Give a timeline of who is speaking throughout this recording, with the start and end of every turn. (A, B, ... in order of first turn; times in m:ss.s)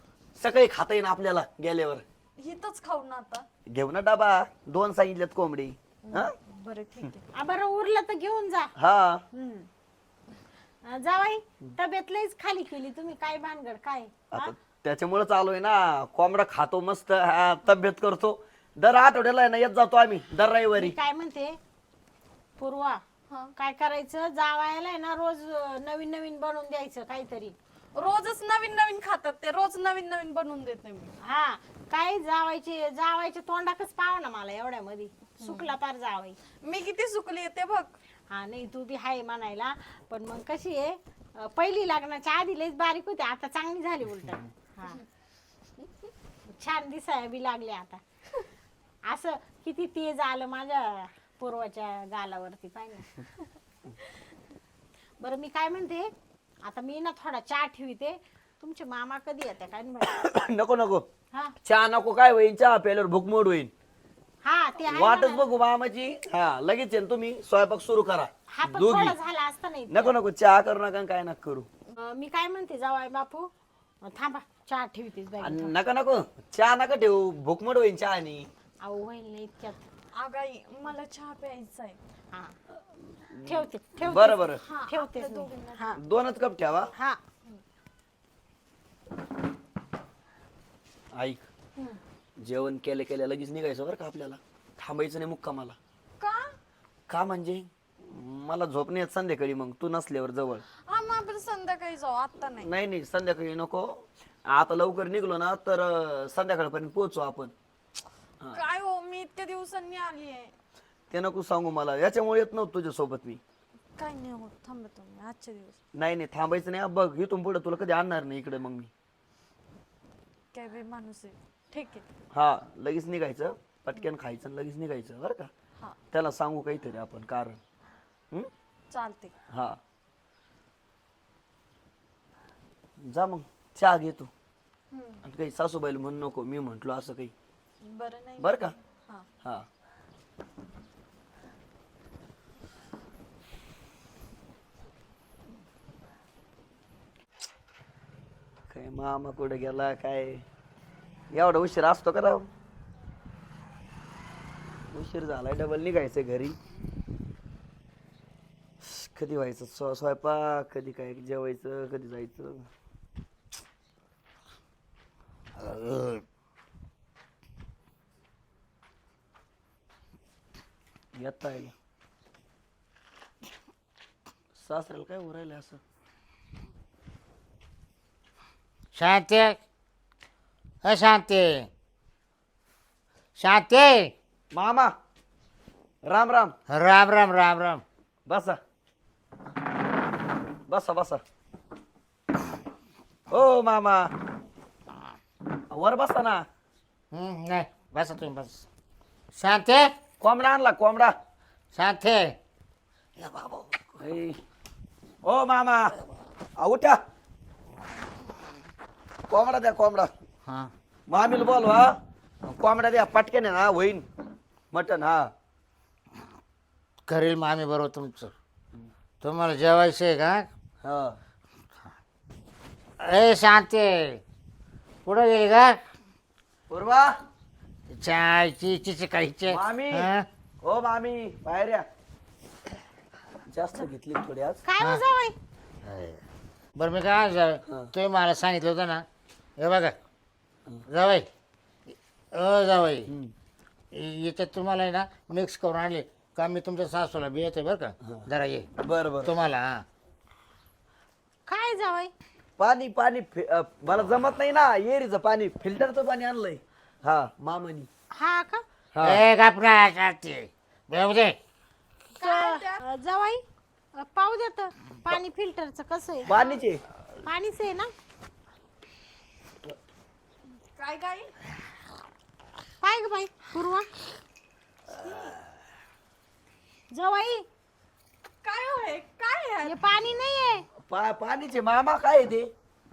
0:00.4-0:02.0 A
0:02.4-0:03.4 B
0:03.7-0:06.3 A
0:06.0-0:07.2 B
0:07.3-0:08.7 C
0:08.8-0:09.2 A
0:09.3-0:09.7 C
0:10.8-0:14.5 C
0:14.3-0:20.9 A
0:20.7-0:21.6 C
0:22.6-0:23.0 C
0:23.6-0:27.5 C
0:27.9-0:31.1 B
0:31.2-0:36.4 C
0:35.4-0:35.7 B
0:36.6-0:37.9 B
0:38.3-0:45.0 C
0:46.5-0:48.0 C
0:49.0-0:53.1 C
0:55.2-0:56.1 C
0:56.6-1:00.4 C
1:00.1-1:01.0 A
1:01.6-1:03.7 A
1:04.4-1:05.4 C
1:04.9-1:09.1 A
1:08.5-1:10.1 C
1:09.9-1:11.7 A
1:12.0-1:13.5 C
1:14.0-1:15.7 C
1:15.4-1:18.5 A
1:18.8-1:19.9 C
1:20.1-1:22.0 B
1:23.3-1:24.6 A
1:23.4-1:26.0 C
1:24.6-1:25.9 B
1:26.0-1:26.9 A
1:31.1-1:31.4 A
1:32.4-1:35.8 A
1:36.2-1:36.5 B
1:37.1-1:40.6 A
1:40.9-1:42.7 B
1:42.6-1:47.5 A
1:48.5-1:50.5 B
1:51.1-1:53.4 A
1:54.0-1:55.8 B
1:55.9-1:58.9 A
2:00.5-2:02.0 B
2:02.3-2:05.5 A
2:06.1-2:07.6 A
2:08.9-2:09.3 B
2:09.5-2:09.8 A
2:13.0-2:14.3 A
2:14.9-2:15.2 B
2:15.2-2:17.3 A
2:17.8-2:19.3 B
2:18.4-2:18.7 A
2:28.7-2:30.4 A
2:31.3-2:32.5 A
2:34.9-2:36.6 A
2:38.8-2:42.7 A
2:45.6-2:46.2 D
2:51.1-2:51.7 A
2:54.6-2:55.8 A
2:58.9-2:59.6 D
3:00.8-3:01.7 D
3:03.4-3:04.1 D
3:04.5-3:04.9 A
3:06.0-3:06.5 A
3:06.7-3:07.8 D
3:08.3-3:08.6 A
3:10.7-3:11.2 A
3:13.3-3:14.1 A
3:15.7-3:16.4 A
3:17.1-3:18.6 D
3:19.4-3:19.9 D
3:20.2-3:21.2 A
3:21.7-3:22.3 D
3:24.0-3:24.4 A
3:25.2-3:25.9 A
3:26.6-3:27.0 A
3:29.3-3:30.1 A
3:30.4-3:30.7 D
3:31.1-3:34.0 A
3:34.7-3:35.3 A
3:37.1-3:38.3 D
3:39.2-3:40.4 D
3:40.8-3:41.2 A
3:43.0-3:44.2 D
3:45.0-3:45.8 D
3:46.7-3:47.2 A
3:47.9-3:50.2 D
3:49.5-3:50.1 A
3:50.6-3:51.9 A
3:53.5-3:54.6 A
3:54.6-3:55.4 C
3:55.8-3:56.2 D
3:56.8-3:59.0 D
3:59.6-3:59.9 D
4:00.9-4:01.3 D
4:01.9-4:03.1 D
4:03.1-4:03.3 A
4:03.9-4:08.7 D
4:08.8-4:09.3 A
4:09.2-4:09.8 D
4:11.5-4:12.1 C
4:12.6-4:17.9 A
4:18.2-4:18.6 C
4:18.9-4:19.2 A
4:19.0-4:21.4 D
4:22.2-4:23.4 C
4:22.2-4:22.8 B
4:24.0-4:26.4 C
4:26.3-4:26.8 A
4:26.3-4:26.6 B
4:27.2-4:27.9 C
4:30.8-4:31.3 B
4:32.8-4:33.9 C
4:34.9-4:35.4 B
4:35.0-4:35.4 A
4:36.9-4:37.4 C
4:38.4-4:39.8 B
4:39.6-4:40.6 C
4:40.9-4:42.5 A